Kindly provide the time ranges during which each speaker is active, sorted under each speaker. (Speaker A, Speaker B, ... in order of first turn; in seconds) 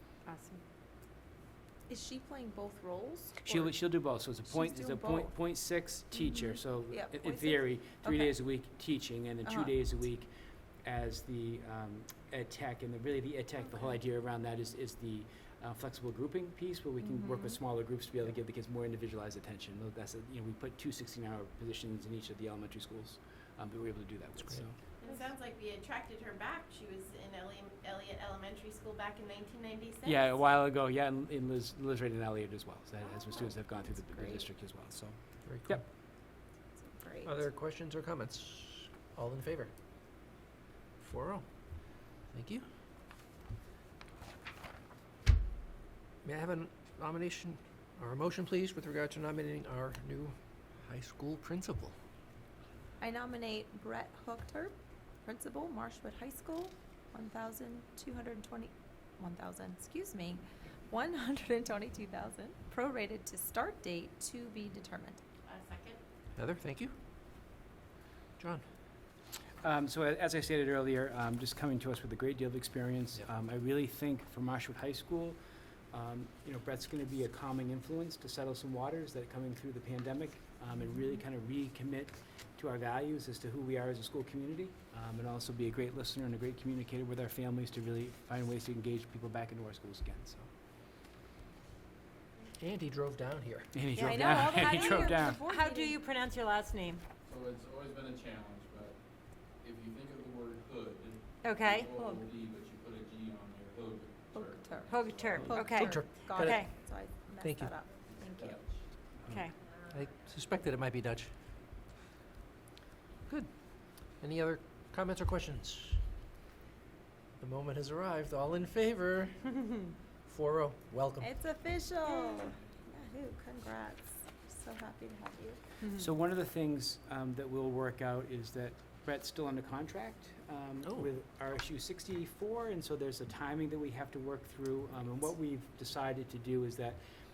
Speaker A: 0.3-0.6, 93.9-97.0, 101.4-102.0, 104.9-106.7, 109.2-109.5
Speaker B: 1.9-3.8, 4.4-5.3, 6.3-8.4, 9.4-9.8, 17.1-17.5, 25.0-25.3, 33.0-34.5, 36.8-37.5, 53.0-65.2, 94.0-96.0, 104.3-108.6, 121.2-125.6
Speaker C: 3.4-10.3, 10.8-24.7, 30.0-35.8, 69.6-75.4, 75.9-90.5, 93.7-95.5, 125.9-137.0
Speaker D: 25.1-30.3, 65.4-66.0
Speaker E: 35.5-35.8, 37.2-39.7, 41.0-41.5, 42.3-42.6, 46.2-51.9, 66.3-66.9, 68.4-68.6, 92.6-93.7, 105.7-107.7, 109.9-111.3, 114.2-116.0, 117.4-121.3
Speaker F: 97.2-99.0, 99.6-105.8, 108.0-108.9